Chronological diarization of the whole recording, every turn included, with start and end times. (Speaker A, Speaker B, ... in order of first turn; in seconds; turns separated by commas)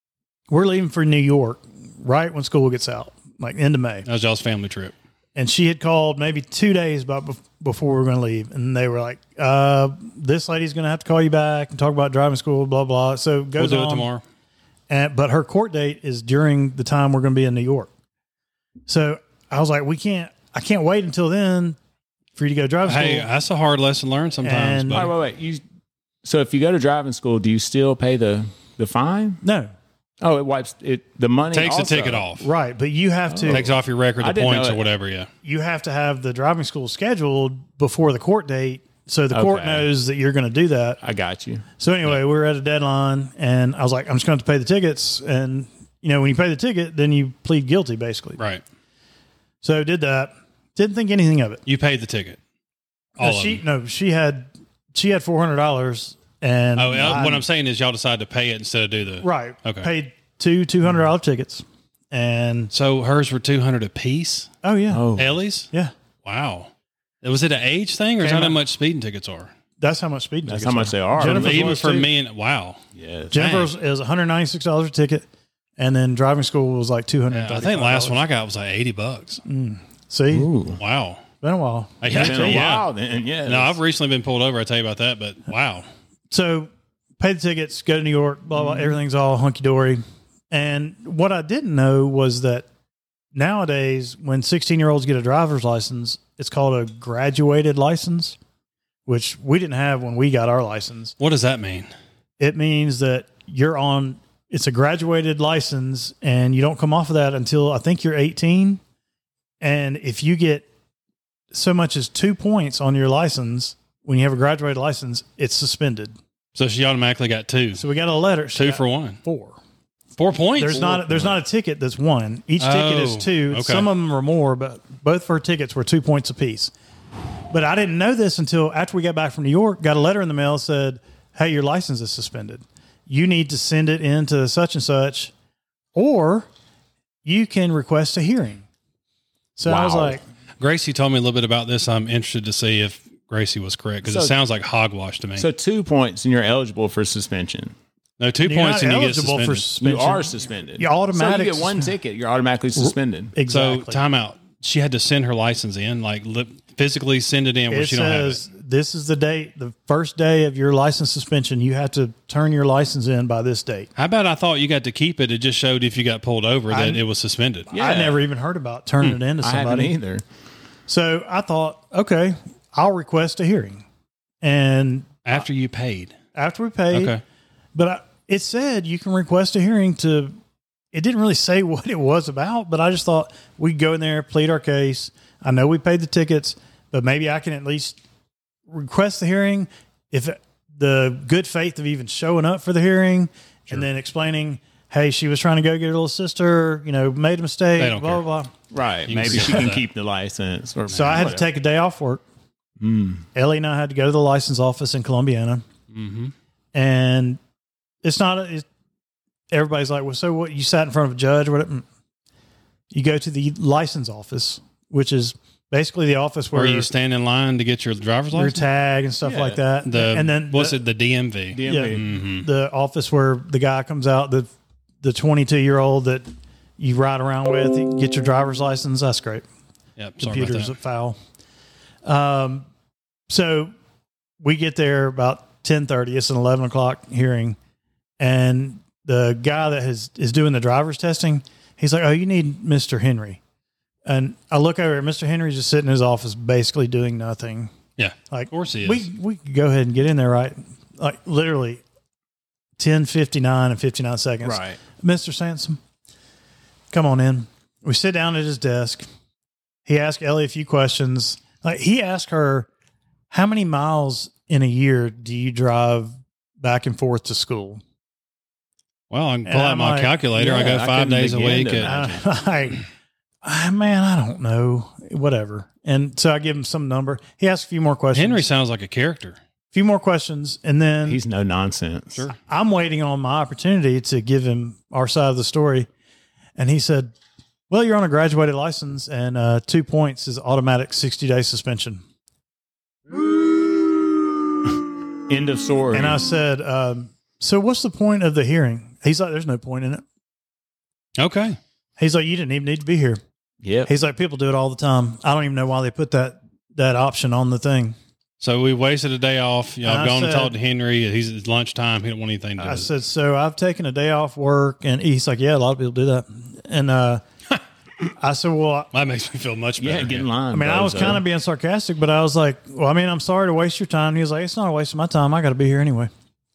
Speaker A: 0.5-4.1, Speaker B: 4.1-4.9, Speaker A: 5.4-14.1, Speaker B: 13.6-14.2, Speaker A: 14.9-17.9, Speaker A: 18.9-21.8, Speaker A: 22.4-23.3, Speaker B: 22.9-25.1, Speaker A: 24.4-25.1, Speaker C: 24.9-25.6, Speaker C: 26.2-29.4, Speaker A: 29.4-29.7, Speaker C: 30.2-32.3, Speaker B: 31.5-32.5, Speaker A: 32.4-33.6, Speaker C: 33.3-34.8, Speaker B: 33.5-35.3, Speaker A: 35.4-41.0, Speaker C: 39.3-39.9, Speaker C: 41.0-41.6, Speaker A: 41.8-48.4, Speaker A: 49.6-51.6, Speaker B: 51.7-52.4, Speaker A: 53.2-57.4, Speaker B: 53.2-53.6, Speaker B: 56.8-59.9, Speaker A: 59.2-62.7, Speaker B: 62.7-64.5, Speaker A: 64.6-65.0, Speaker C: 64.9-65.4, Speaker B: 65.2-65.7, Speaker B: 66.2-66.7, Speaker B: 67.2-69.5, Speaker A: 68.2-68.6, Speaker A: 69.8-72.1, Speaker C: 70.5-71.8, Speaker B: 71.2-72.8, Speaker C: 73.0-73.4, Speaker A: 73.3-75.3, Speaker B: 73.3-73.7, Speaker A: 75.8-78.2, Speaker B: 77.3-79.4, Speaker A: 79.5-80.5, Speaker C: 80.3-80.8, Speaker B: 80.8-81.2, Speaker A: 81.4-82.7, Speaker B: 82.0-82.9, Speaker C: 82.1-83.8, Speaker B: 83.5-85.9, Speaker A: 86.3-92.7, Speaker C: 88.6-88.9, Speaker A: 93.3-98.4, Speaker A: 99.1-101.2, Speaker B: 101.2-101.9, Speaker A: 102.4-108.8, Speaker A: 109.6-110.7, Speaker A: 111.5-116.2, Speaker B: 116.6-117.8, Speaker A: 117.8-119.6, Speaker B: 118.5-119.2, Speaker B: 120.2-120.9, Speaker A: 120.6-126.7, Speaker C: 120.7-121.4, Speaker B: 122.6-123.9, Speaker A: 127.5-135.3, Speaker A: 135.9-136.5, Speaker A: 137.2-138.7, Speaker A: 139.6-140.2, Speaker C: 139.7-140.2, Speaker B: 140.6-145.5, Speaker C: 144.0-144.3, Speaker C: 145.4-147.8, Speaker B: 148.2-149.6, Speaker A: 148.4-151.9, Speaker C: 149.8-153.3, Speaker A: 152.8-154.0, Speaker B: 153.5-158.4, Speaker A: 157.7-163.9, Speaker B: 164.0-167.7, Speaker A: 166.7-167.0, Speaker C: 167.7-168.2, Speaker A: 167.7-169.9, Speaker C: 169.4-170.2, Speaker A: 170.9-173.8, Speaker A: 174.4-175.2, Speaker B: 175.3-176.2, Speaker A: 176.3-177.2, Speaker B: 176.9-177.2, Speaker A: 177.8-180.3, Speaker A: 180.9-188.0, Speaker A: 188.7-198.5, Speaker B: 197.8-198.2, Speaker C: 198.7-201.4, Speaker B: 199.1-199.8, Speaker A: 200.9-202.2, Speaker B: 201.0-201.2, Speaker C: 202.8-203.2, Speaker A: 203.3-205.6, Speaker B: 205.9-206.3, Speaker A: 206.7-207.4, Speaker A: 208.0-208.7, Speaker A: 209.5-211.8, Speaker A: 212.9-216.9, Speaker B: 216.5-218.7, Speaker A: 218.3-220.8, Speaker C: 219.2-219.6, Speaker B: 219.8-222.5, Speaker C: 221.5-222.0, Speaker A: 221.7-224.5, Speaker A: 225.0-226.3, Speaker A: 226.8-229.4, Speaker B: 230.0-230.7, Speaker A: 230.2-231.2, Speaker A: 232.1-232.7, Speaker A: 233.3-233.7, Speaker A: 234.4-237.6, Speaker A: 238.2-243.4, Speaker A: 244.1-247.7, Speaker B: 248.0-249.0, Speaker A: 248.3-251.8, Speaker A: 252.8-255.8, Speaker C: 254.4-254.8, Speaker A: 256.9-259.1, Speaker A: 259.9-262.7, Speaker A: 263.3-267.8, Speaker B: 269.1-271.9, Speaker A: 269.5-270.2, Speaker C: 270.4-272.2, Speaker A: 271.8-272.9, Speaker A: 273.4-278.4, Speaker B: 278.1-279.4, Speaker A: 279.7-281.2, Speaker C: 281.1-282.3, Speaker A: 282.5-285.9, Speaker A: 286.6-287.1, Speaker A: 287.7-292.0, Speaker C: 295.3-296.2, Speaker A: 295.9-300.0, Speaker B: 301.2-301.6, Speaker A: 302.0-303.2, Speaker C: 303.6-303.9, Speaker A: 303.9-308.0, Speaker B: 308.4-312.9, Speaker A: 309.8-310.5, Speaker A: 312.6-317.2, Speaker A: 318.2-318.9, Speaker B: 318.9-320.3, Speaker C: 319.8-321.2, Speaker A: 320.5-326.1